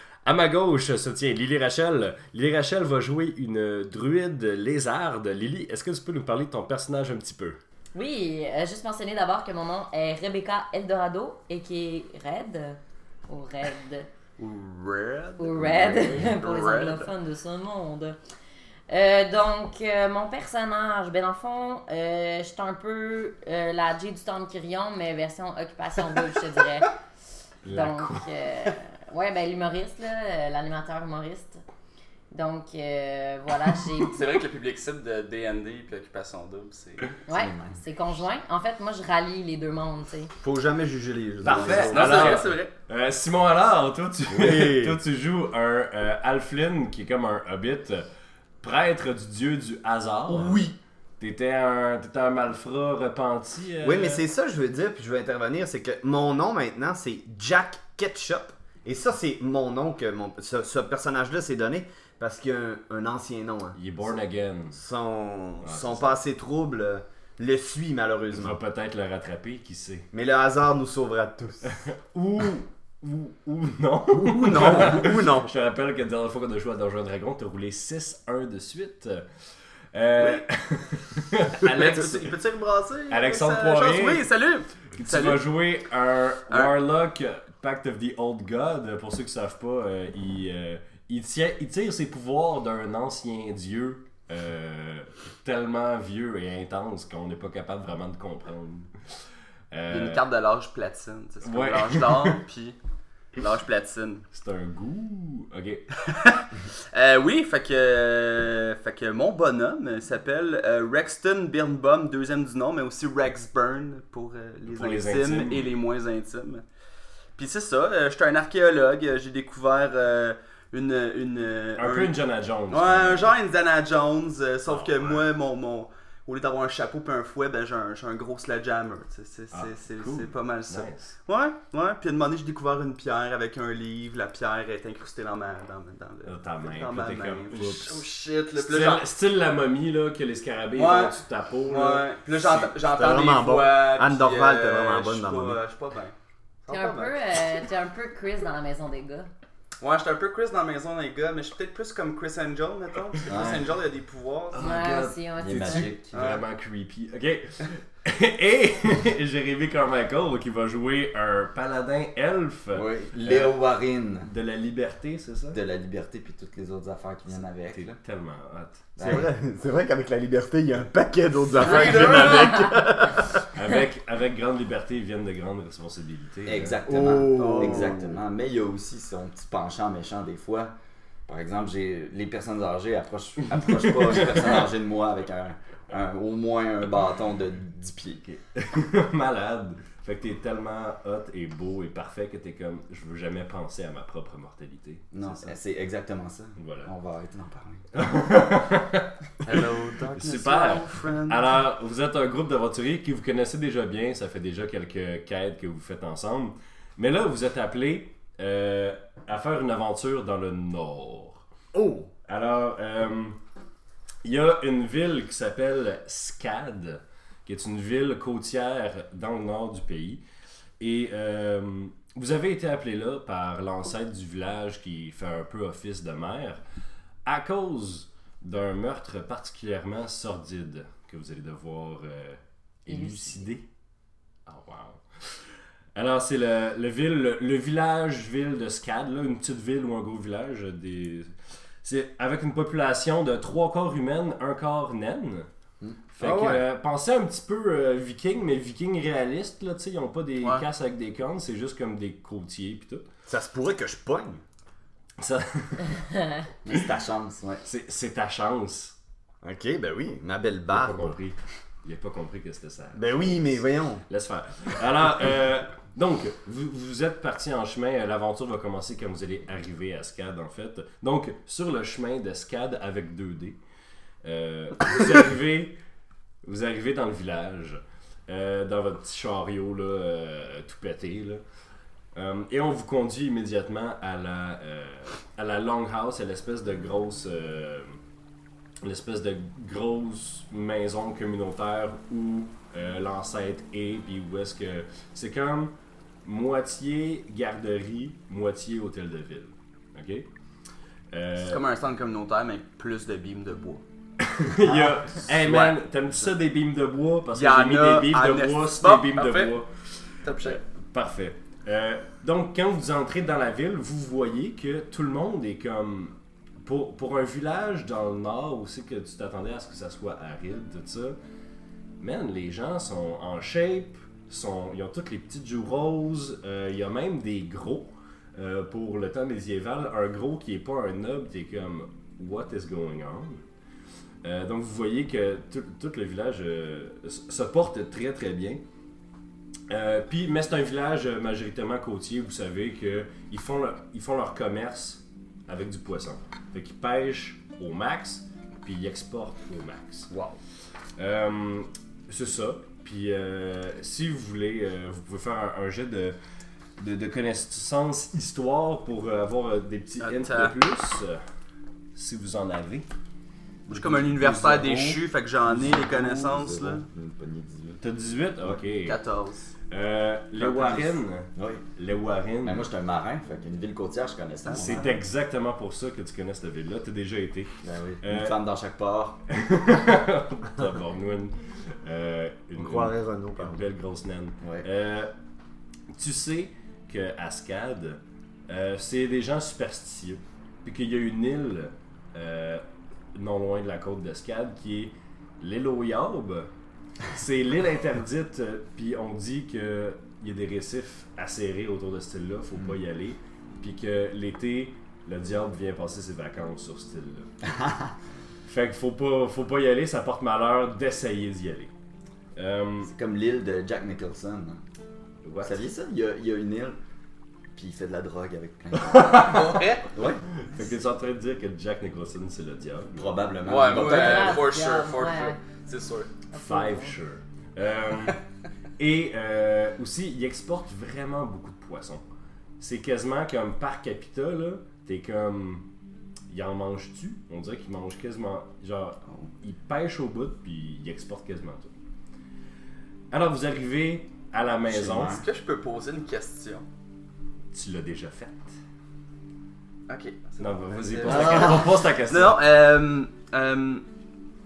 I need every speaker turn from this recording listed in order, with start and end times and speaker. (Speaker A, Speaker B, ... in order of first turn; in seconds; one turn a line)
Speaker A: 0.2-7.6
Speaker B: 7.9-14.1
Speaker C: 14.4-17.1
Speaker B: 15.4-18.2
Speaker B: 18.9-26.9
Speaker A: 27.6-28.3
Speaker B: 27.7-31.6
Speaker B: 32.3-34.2
Speaker C: 34.1-37.1
Speaker B: 37.3-40.3
Speaker D: 37.3-37.8
Speaker E: 40.4-42.4
Speaker A: 41.4-48.1
Speaker C: 41.5-42.7
Speaker E: 44.3-45.0
Speaker A: 48.6-54.2
Speaker E: 50.3-50.7
Speaker E: 53.8-63.8
Speaker A: 63.8-64.8
Speaker E: 64.7-68.6
Speaker A: 65.6-66.2
Speaker A: 68.3-70.1
Speaker E: 70.1-71.8
Speaker A: 71.7-79.3
Speaker E: 74.1-75.5
Speaker A: 79.9-82.4
Speaker C: 81.6-85.5
Speaker A: 83.1-84.3
Speaker A: 84.9-99.2
Speaker A: 99.7-100.2
Speaker C: 99.9-102.8
Speaker A: 101.4-102.4
Speaker C: 103.4-104.3
Speaker A: 104.3-105.9
Speaker C: 106.1-106.3
Speaker C: 106.9-116.6
Speaker A: 114.7-115.7
Speaker C: 117.4-122.1
Speaker A: 121.8-123.3
Speaker C: 122.7-139.1
Speaker A: 124.7-125.3
Speaker A: 129.5-131.1
Speaker A: 136.2-142.7
Speaker C: 140.8-146.1
Speaker E: 142.8-145.6
Speaker E: 146.7-147.1
Speaker B: 146.7-149.3
Speaker C: 149.8-154.7
Speaker D: 153.3-153.7
Speaker A: 154.5-163.6
Speaker B: 154.6-155.9
Speaker D: 155.4-156.1
Speaker C: 156.1-156.4
Speaker D: 162.7-164.3
Speaker A: 164.2-165.6
Speaker D: 165.5-168.0
Speaker A: 167.7-169.3
Speaker D: 169.0-169.3
Speaker E: 169.0-173.4
Speaker C: 171.6-172.7
Speaker A: 171.8-172.3
Speaker A: 173.3-176.8
Speaker D: 176.5-180.7
Speaker E: 176.9-178.2
Speaker D: 181.3-188.2
Speaker A: 188.2-195.6
Speaker D: 195.1-197.9
Speaker A: 196.6-196.9
Speaker A: 197.9-211.4
Speaker C: 199.4-201.5
Speaker E: 211.7-212.1
Speaker A: 212.2-213.4
Speaker A: 214.2-220.2
Speaker A: 220.8-226.6
Speaker A: 227.2-233.7
Speaker B: 232.9-233.5
Speaker A: 234.5-235.4
Speaker A: 235.9-241.3
Speaker A: 241.8-245.5
Speaker E: 245.8-246.7
Speaker A: 246.1-253.0
Speaker E: 253.3-254.4
Speaker A: 255.2-256.8
Speaker D: 256.6-257.6
Speaker A: 257.6-258.9
Speaker E: 259.4-261.2
Speaker A: 260.7-273.6
Speaker E: 262.9-264.1
Speaker A: 274.2-275.8
Speaker A: 276.4-281.4
Speaker A: 282.1-288.0
Speaker A: 288.8-300.3
Speaker A: 301.1-301.6
Speaker C: 301.4-303.8
Speaker A: 304.2-321.2
Speaker C: 305.3-305.8
Speaker C: 307.3-309.6
Speaker C: 310.2-310.6
Speaker A: 322.0-333.4
Speaker A: 334.2-338.6
Speaker A: 339.7-350.1
Speaker E: 350.1-350.4
Speaker A: 351.0-356.2
Speaker A: 356.8-361.2
Speaker C: 360.0-360.6
Speaker A: 361.9-362.9
Speaker D: 363.7-367.8
Speaker C: 363.7-366.9
Speaker A: 367.8-369.0
Speaker C: 368.9-369.5
Speaker A: 369.7-372.7
Speaker D: 370.4-371.6
Speaker D: 372.4-374.9
Speaker C: 374.5-374.8
Speaker A: 374.5-378.4
Speaker D: 377.6-379.2
Speaker A: 379.3-385.1
Speaker E: 382.6-383.6
Speaker D: 384.4-384.7
Speaker A: 385.9-392.6
Speaker A: 393.1-396.5
Speaker A: 397.1-407.3
Speaker A: 408.5-411.7
Speaker A: 412.4-412.9
Speaker D: 412.9-414.6
Speaker A: 415.2-415.6
Speaker D: 415.4-416.8
Speaker D: 417.5-420.2
Speaker C: 419.0-419.9
Speaker A: 420.5-423.2
Speaker D: 423.0-424.5
Speaker C: 423.4-426.1
Speaker B: 423.7-425.4
Speaker B: 426.3-427.0
Speaker A: 426.3-428.2
Speaker A: 428.8-432.0
Speaker A: 432.6-435.7
Speaker A: 436.3-441.7
Speaker A: 443.1-445.2
Speaker D: 444.7-445.2
Speaker C: 445.0-446.7
Speaker A: 447.5-448.6
Speaker C: 449.9-453.8
Speaker A: 450.4-452.4